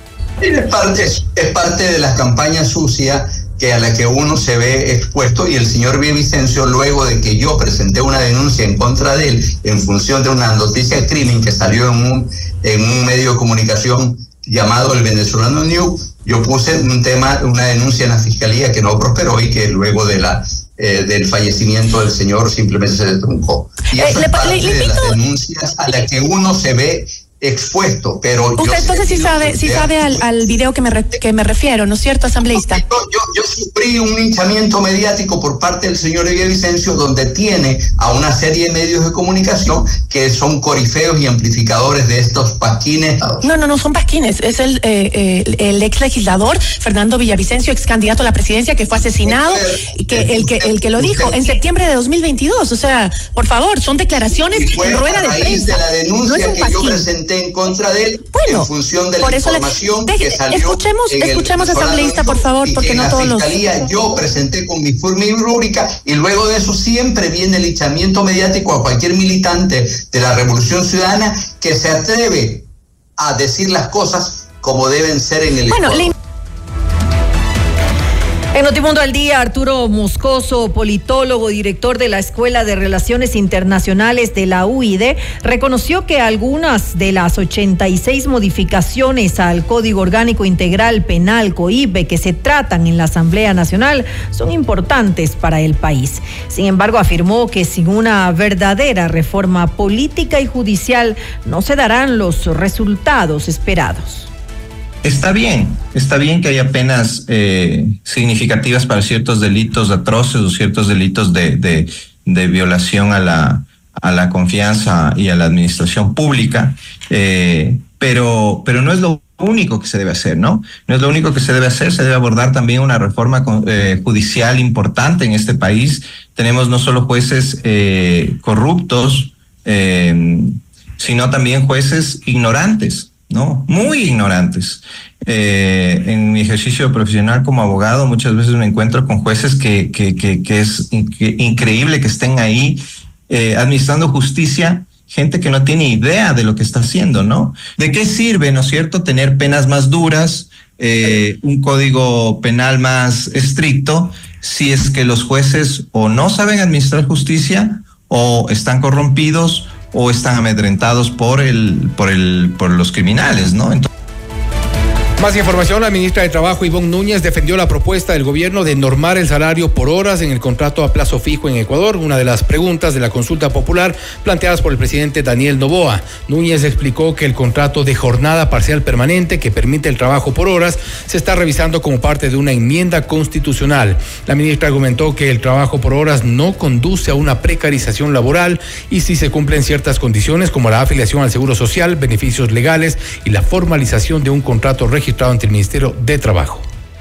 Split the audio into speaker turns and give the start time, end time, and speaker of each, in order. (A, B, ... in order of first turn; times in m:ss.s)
0:00.4-0:30.7 A
0:24.0-0:25.2 B
0:28.6-0:32.8 B
0:32.5-0:43.4 A
0:43.4-0:57.0 B
0:49.2-0:51.6 A
0:54.5-1:12.7 A
0:58.3-1:03.9 B
1:13.2-1:16.1 A
1:15.7-1:16.1 B
1:18.5-1:44.3 C
1:45.0-2:43.9 D
2:45.2-3:16.6 E